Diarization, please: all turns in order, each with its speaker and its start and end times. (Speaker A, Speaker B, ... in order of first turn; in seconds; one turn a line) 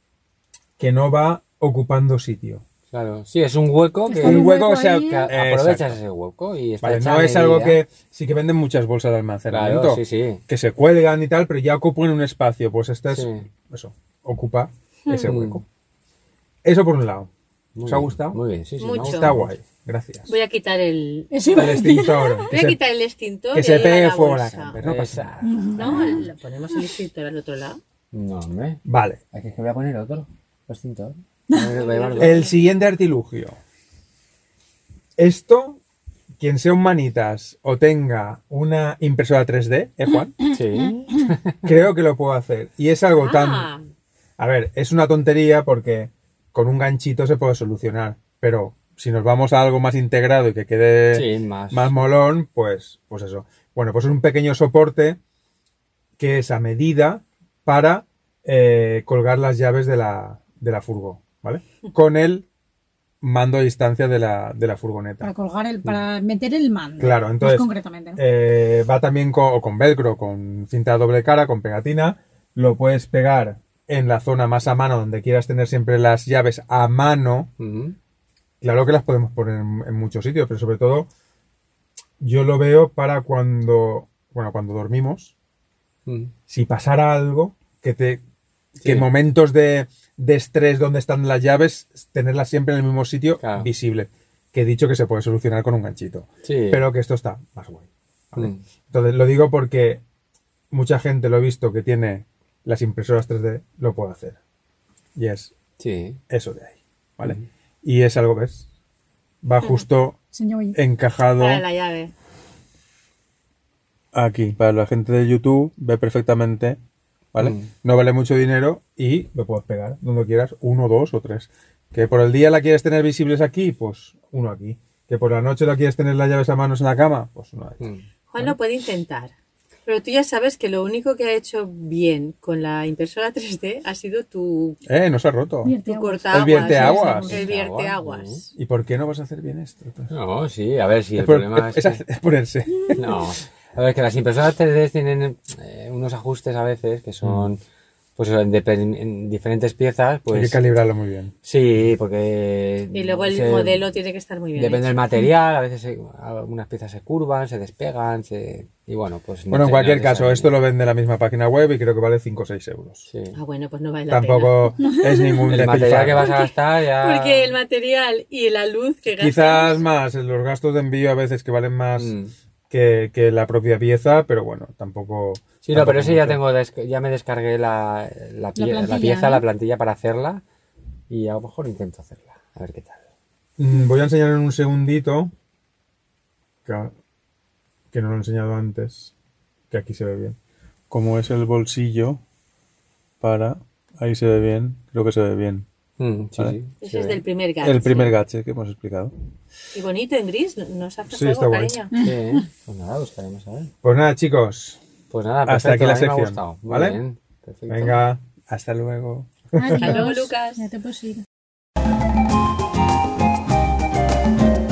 Speaker A: 0.8-2.6
Speaker B: 2.9-7.8
Speaker C: 4.1-5.3
Speaker A: 4.2-6.0
Speaker A: 6.8-15.6
Speaker B: 9.5-10.4
Speaker B: 13.1-13.5
Speaker D: 15.1-15.3
Speaker B: 15.2-15.6
Speaker A: 16.6-17.3
Speaker B: 17.7-19.5
Speaker A: 17.8-18.4
Speaker D: 18.8-19.4
Speaker A: 19.0-20.3
Speaker D: 20.3-21.8
Speaker C: 21.3-22.5
Speaker A: 21.5-22.8
Speaker D: 22.4-24.8
Speaker A: 23.5-25.3
Speaker B: 24.8-26.2
Speaker C: 25.4-26.1
Speaker D: 25.7-27.8
Speaker B: 28.1-28.8
Speaker A: 28.8-29.2
Speaker B: 29.3-32.4
Speaker D: 31.7-32.7
Speaker A: 32.2-33.6
Speaker A: 35.2-35.8
Speaker A: 36.4-40.4
Speaker B: 40.5-41.8
Speaker A: 41.6-43.7
Speaker D: 43.2-43.8
Speaker A: 44.4-55.2
Speaker B: 51.1-51.9
Speaker A: 56.2-62.5
Speaker A: 63.2-65.3
Speaker C: 65.2-68.2
Speaker A: 67.0-77.5
Speaker B: 77.6-77.9
Speaker A: 78.6-81.1
Speaker A: 82.2-85.3
Speaker B: 86.0-86.3
Speaker A: 86.5-88.2
Speaker B: 88.8-89.1
Speaker A: 88.8-100.0
Speaker B: 93.4-93.7
Speaker B: 96.4-96.8
Speaker B: 98.4-98.6
Speaker A: 100.7-104.4
Speaker A: 105.1-105.5
Speaker B: 105.8-106.2
Speaker A: 106.3-108.7
Speaker A: 109.4-110.2
Speaker C: 110.3-110.8
Speaker A: 110.7-111.6
Speaker D: 111.4-112.1
Speaker A: 114.1-116.8
Speaker A: 117.3-128.6
Speaker B: 117.4-117.7
Speaker D: 128.3-129.3
Speaker D: 129.8-134.8
Speaker A: 134.8-135.8
Speaker C: 135.6-137.4
Speaker D: 135.8-138.5
Speaker A: 136.3-137.4
Speaker B: 137.2-138.4
Speaker A: 138.6-140.1
Speaker B: 140.1-142.0
Speaker A: 141.1-143.0
Speaker B: 142.9-147.6
Speaker A: 147.2-147.5
Speaker B: 148.2-150.6
Speaker A: 150.3-151.3
Speaker B: 151.4-153.8
Speaker D: 152.9-155.0
Speaker B: 154.5-160.5
Speaker A: 159.5-163.1
Speaker B: 163.1-163.4
Speaker D: 163.3-164.9
Speaker A: 164.1-166.3
Speaker C: 164.8-165.4
Speaker B: 165.5-167.5
Speaker D: 166.2-169.8
Speaker A: 169.2-172.1
Speaker B: 172.0-172.3
Speaker A: 172.7-176.4
Speaker B: 175.6-180.4
Speaker C: 178.6-179.4
Speaker B: 181.1-183.0
Speaker A: 183.6-185.3
Speaker A: 186.7-186.9
Speaker A: 187.9-189.1
Speaker A: 189.7-190.4
Speaker A: 190.9-192.2
Speaker A: 193.2-195.7
Speaker B: 196.0-197.2
Speaker D: 196.8-198.1
Speaker A: 197.6-199.1
Speaker D: 199.7-201.9
Speaker A: 201.1-201.8
Speaker C: 201.9-202.2
Speaker B: 201.9-203.7
Speaker A: 203.8-204.8
Speaker B: 205.1-208.0
Speaker A: 205.4-207.0
Speaker A: 207.7-210.1
Speaker C: 209.6-211.2
Speaker D: 209.8-210.6